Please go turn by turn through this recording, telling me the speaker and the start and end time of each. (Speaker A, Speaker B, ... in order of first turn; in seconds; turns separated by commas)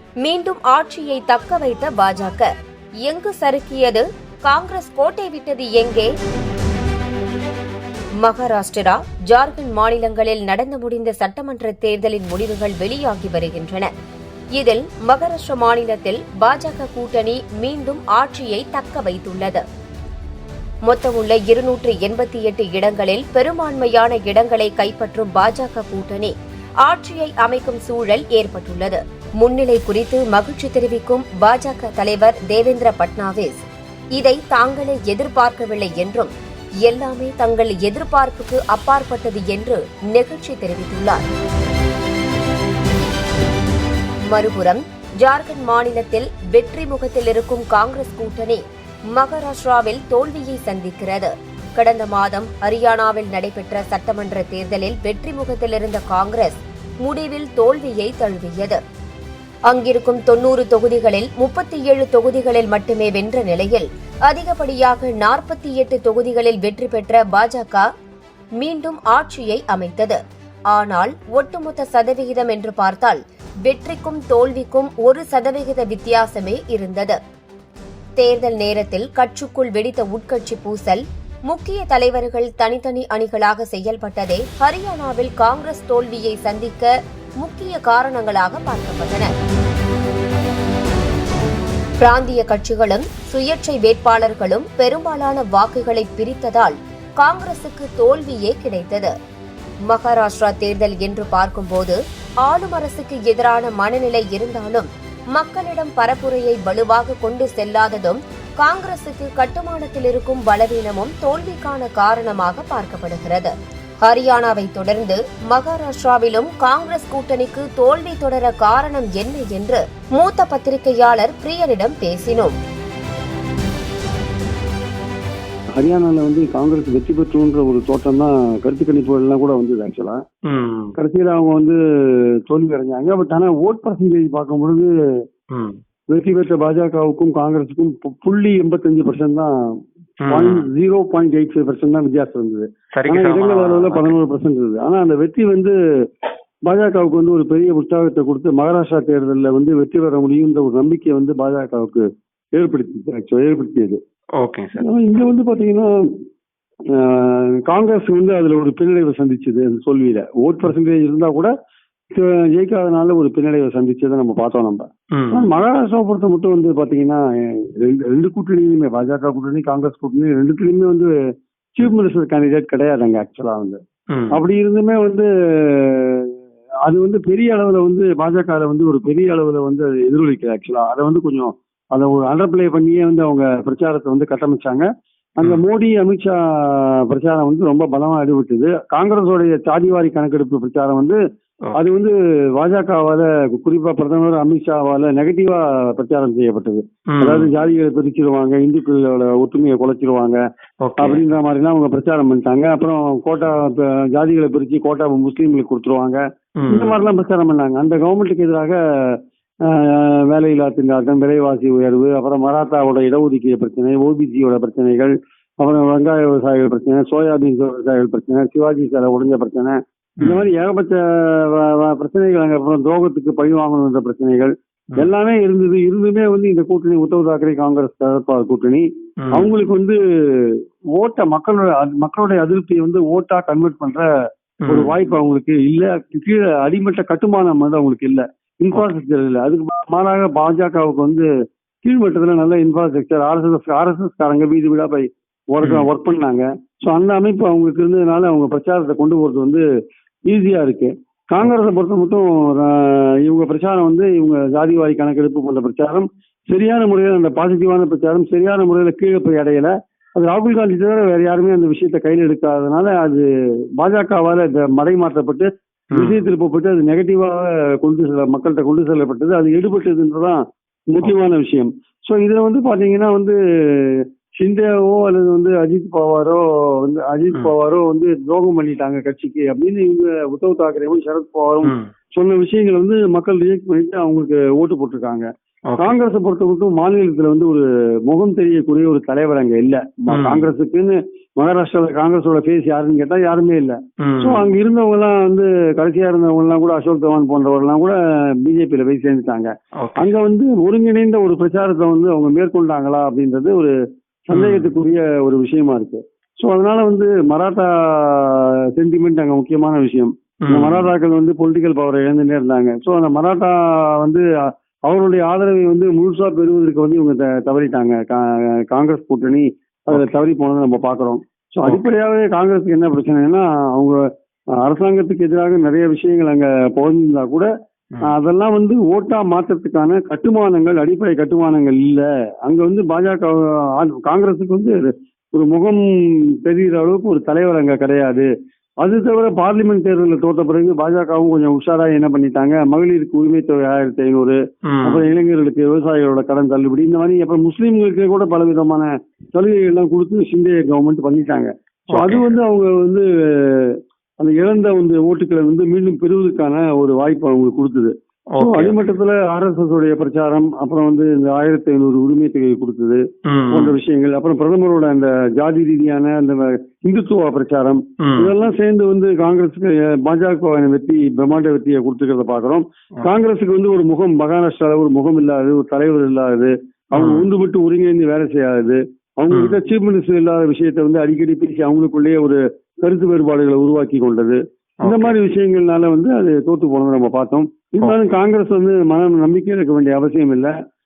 Speaker A: 0.2-2.5, Speaker A: 3.0-6.1, Speaker A: 8.2-13.9, Speaker A: 14.6-19.6, Speaker A: 20.9-36.3, Speaker A: 36.9-41.2, Speaker A: 44.3-58.8, Speaker A: 59.7-67.9, Speaker A: 68.6-70.2, Speaker A: 70.7-77.2, Speaker A: 78.2-89.3, Speaker A: 92.0-99.1, Speaker A: 99.9-122.6, Speaker B: 125.8-130.2, Speaker C: 130.5-130.9, Speaker B: 131.0-131.8, Speaker B: 132.5-134.9, Speaker C: 135.5-135.8, Speaker B: 136.1-139.5, Speaker C: 140.3-140.7, Speaker B: 140.3-145.8, Speaker C: 142.9-144.1, Speaker B: 146.7-154.0, Speaker C: 154.4-154.9, Speaker B: 154.8-155.9, Speaker B: 156.9-161.5, Speaker B: 162.2-171.1, Speaker C: 165.1-165.5, Speaker B: 171.8-173.8, Speaker C: 174.1-174.4, Speaker B: 174.3-176.3, Speaker B: 176.9-184.8, Speaker B: 185.4-191.2, Speaker B: 191.8-200.4, Speaker C: 197.1-197.5, Speaker C: 200.8-201.2, Speaker B: 201.0-234.1, Speaker C: 206.6-207.0, Speaker C: 220.2-220.5, Speaker C: 229.2-229.5, Speaker C: 234.6-234.9, Speaker B: 234.7-241.3, Speaker B: 241.8-249.6, Speaker C: 245.6-245.9, Speaker B: 250.3-263.2, Speaker B: 263.8-285.3, Speaker C: 265.9-266.3, Speaker C: 281.6-281.9, Speaker C: 285.7-286.0, Speaker B: 285.8-303.7, Speaker C: 290.1-290.5, Speaker C: 294.0-294.5, Speaker C: 299.8-300.1, Speaker B: 304.3-314.2, Speaker C: 304.3-304.7, Speaker C: 310.4-310.9, Speaker B: 314.9-324.0, Speaker B: 324.6-327.5, Speaker B: 328.1-335.9, Speaker B: 336.4-338.3, Speaker B: 338.8-390.5, Speaker C: 344.6-345.1, Speaker C: 351.9-352.2, Speaker C: 358.3-358.8, Speaker C: 363.3-363.8, Speaker C: 368.0-368.3, Speaker C: 376.9-377.3, Speaker C: 379.3-379.6, Speaker C: 384.8-385.1